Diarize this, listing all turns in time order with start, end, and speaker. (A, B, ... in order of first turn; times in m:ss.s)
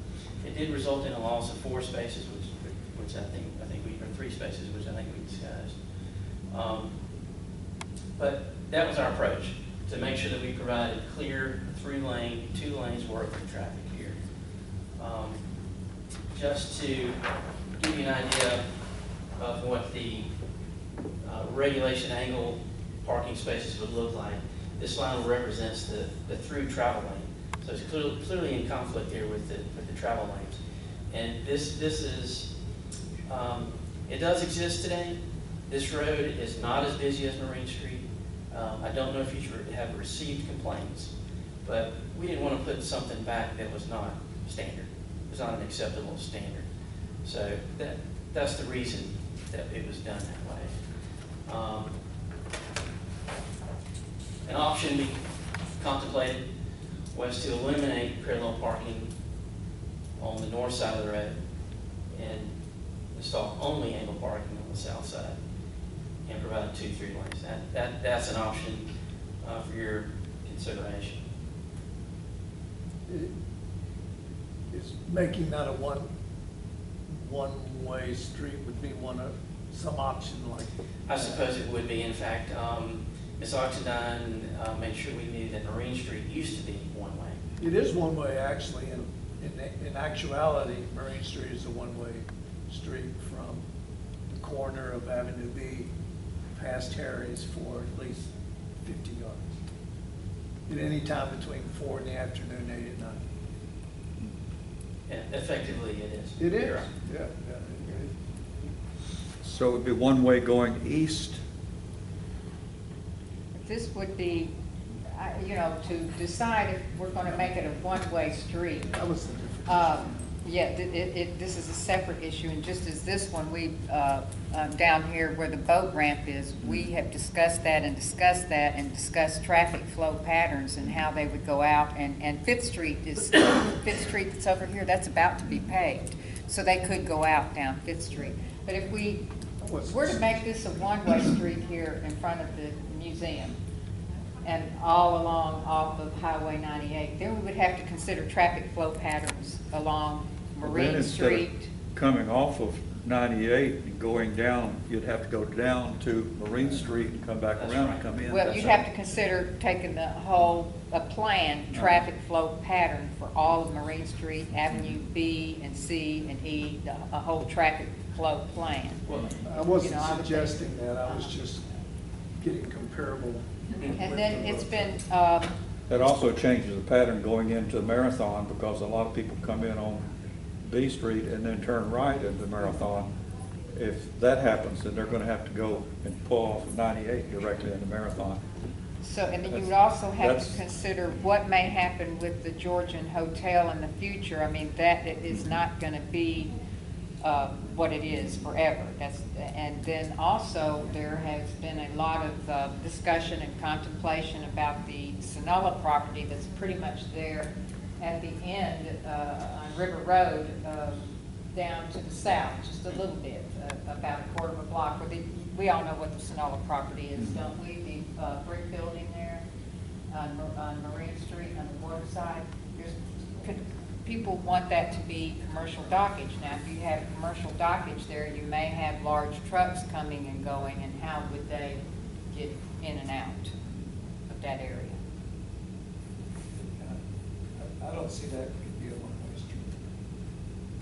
0:00.4-0:05.8 A
0:06.5-0:07.0 A
0:08.2-0:14.2 A
0:15.0-0:15.4 A
0:16.3-0:17.2 A
0:17.8-0:18.7 A
0:19.3-0:20.3 A
0:21.2-0:30.6 A
0:31.1-0:32.5 A
0:33.2-0:46.7 A
0:47.2-0:50.8 A
0:51.4-0:52.0 A
0:54.4-0:55.2 A
0:55.8-0:56.5 A
0:57.1-0:59.1 A
1:00.2-1:01.4 A
1:02.1-1:02.5 A
1:03.1-1:05.4 A
1:06.2-1:08.9 A
1:09.4-1:11.2 A
1:13.1-1:13.3 B
1:14.7-1:16.1 B
1:17.1-1:21.4 B
1:21.0-1:27.4 A
1:27.6-1:33.6 B
1:34.3-1:35.9 B
1:36.5-1:38.3 B
1:38.8-1:39.5 B
1:40.7-1:43.2 B
1:45.1-1:46.9 A
1:46.4-1:48.1 B
1:49.4-1:51.4 C
1:53.5-1:54.5 D
1:55.1-1:58.9 D
1:58.9-2:00.1 B
1:59.6-2:19.2 D
2:19.6-2:20.4 B
2:19.8-2:23.6 D
2:24.4-2:31.7 D
2:30.6-2:38.8 C
2:37.5-2:38.2 A
2:38.3-2:49.0 D
2:49.1-2:51.6 B
2:49.7-2:51.3 D
2:52.4-2:54.9 B
2:53.9-2:55.5 D
2:55.9-3:00.0 C
3:00.6-3:03.1 C
3:03.7-3:08.4 C
3:09.0-3:16.5 D
3:09.4-3:10.6 C
3:17.2-3:31.0 D
3:31.5-3:39.4 D
3:40.1-3:51.8 D
3:52.3-3:53.5 D
3:54.3-3:55.0 D
3:56.5-3:57.0 B
3:57.6-3:59.8 B